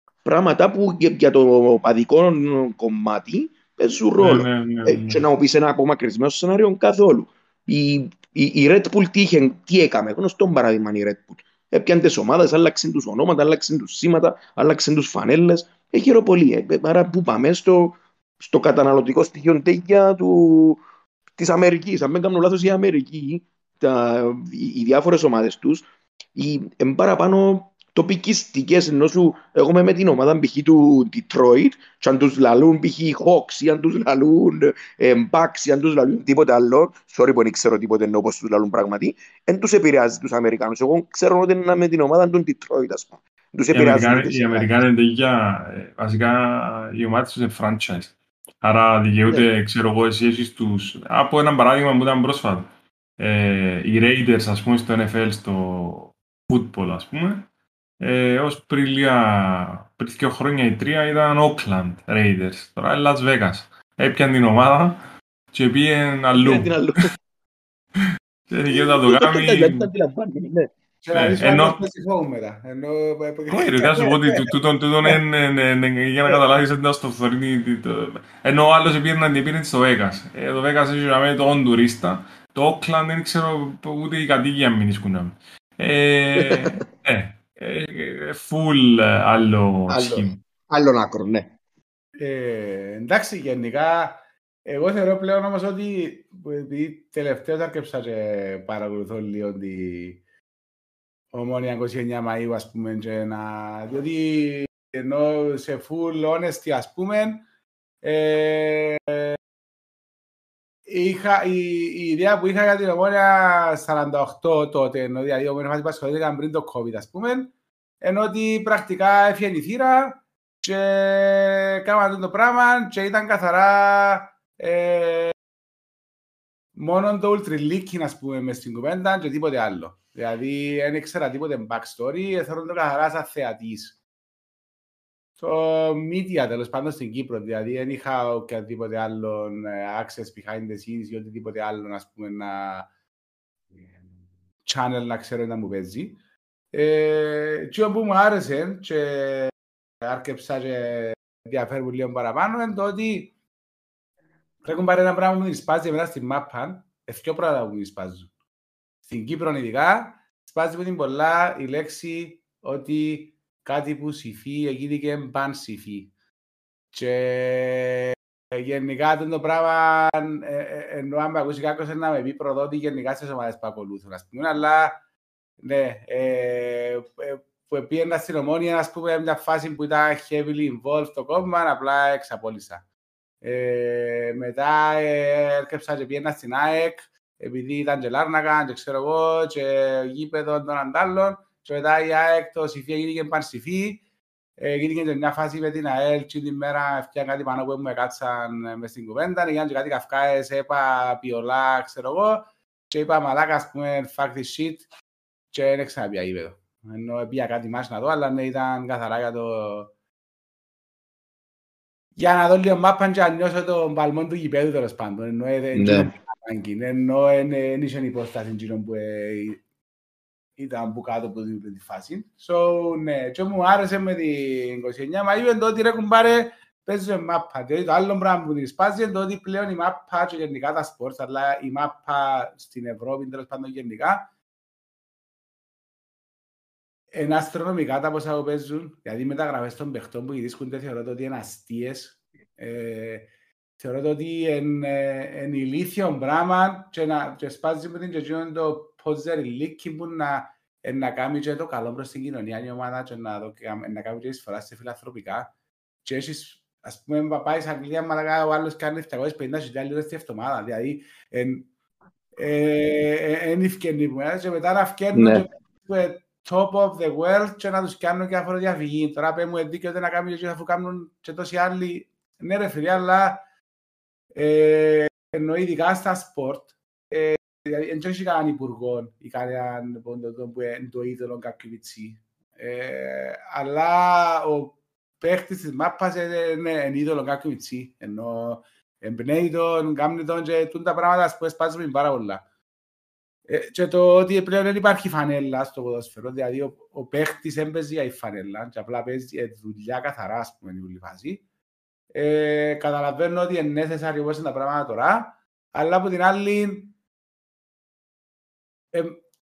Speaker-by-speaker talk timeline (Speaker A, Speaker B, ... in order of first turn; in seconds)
Speaker A: 0.2-20.8, 21.4-44.8, 66.4-67.1, 68.7-70.7, 73.8-75.2, 86.3-86.8, 89.9-91.5, 215.7-216.1, 265.1-265.4
Speaker B: 4.2-5.2, 43.7-57.5, 58.0-65.0, 65.5-66.7, 68.5-69.9, 71.1-71.8, 73.5-90.4
Speaker C: 71.0-73.9, 92.2-100.2, 101.3-107.4, 108.0-109.4, 110.9-125.3, 126.8-134.0, 135.4-142.9, 144.6-146.2, 146.7-149.5, 150.0-153.3, 154.6-158.3, 159.1-166.1, 166.9-175.0, 175.6-182.8, 183.4-194.0, 194.6-204.9, 205.5-209.9, 212.2-219.6, 220.6-234.3, 237.1-255.5, 256.0-261.7, 262.4-273.4, 274.3-292.4, 293.5-301.4, 302.1-306.9, 308.9-309.2